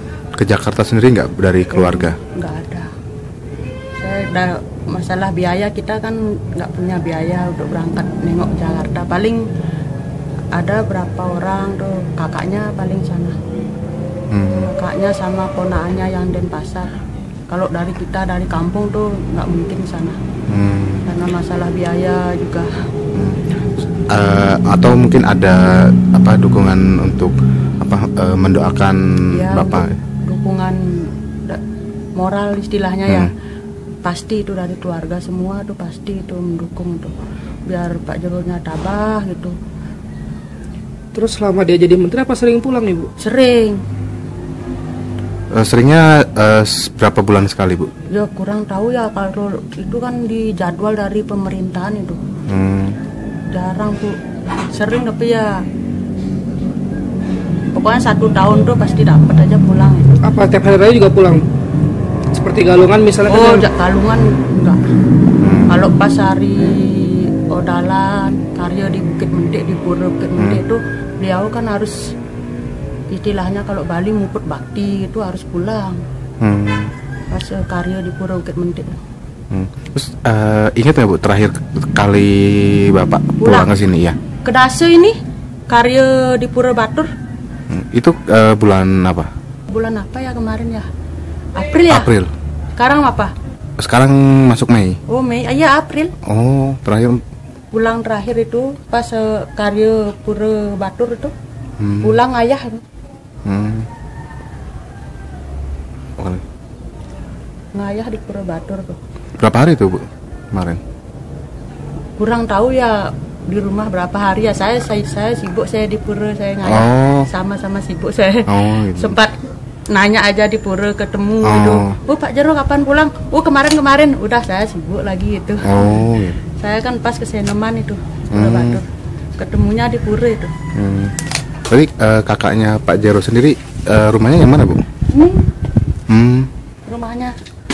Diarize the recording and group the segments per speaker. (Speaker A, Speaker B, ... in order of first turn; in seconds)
Speaker A: 0.3-2.2, 14.3-14.7, 20.5-21.1, 23.1-29.9, 45.5-47.9, 52.5-53.0, 65.4-65.8, 70.4-70.6, 76.4-76.9, 79.5-84.2, 87.7-89.3, 91.9-92.3, 93.8-95.0, 96.2-97.2, 101.8-102.2, 103.4-103.9, 106.2-106.4, 109.4-110.8, 116.6-117.3, 118.5-119.2, 121.4-122.0, 125.6-126.4, 128.3-128.8, 130.7-131.2, 131.7-134.8, 136.1-136.5
Speaker B: 1.7-2.9, 4.0-9.4, 10.5-13.3, 14.6-16.9, 17.5-20.2, 21.1-22.7, 29.3-30.8, 32.1-33.3, 34.0-37.1, 37.7-39.5, 43.2-43.8, 48.1-52.2, 53.5-54.2, 54.7-55.6, 57.7-60.1, 63.3-64.8, 65.7-72.1, 73.1-76.0, 77.3-79.0, 83.4-83.7, 84.4-85.2, 85.7-87.1, 89.7-90.9, 91.5-92.1, 92.8-93.3, 95.1-96.1, 97.7-101.3, 102.0-102.8, 107.7-109.0, 112.2-119.4, 119.9-128.8, 129.4-130.5, 135.1-135.5, 136.8-137.3
Speaker C: 41.1-43.1, 60.2-61.4, 62.3-63.7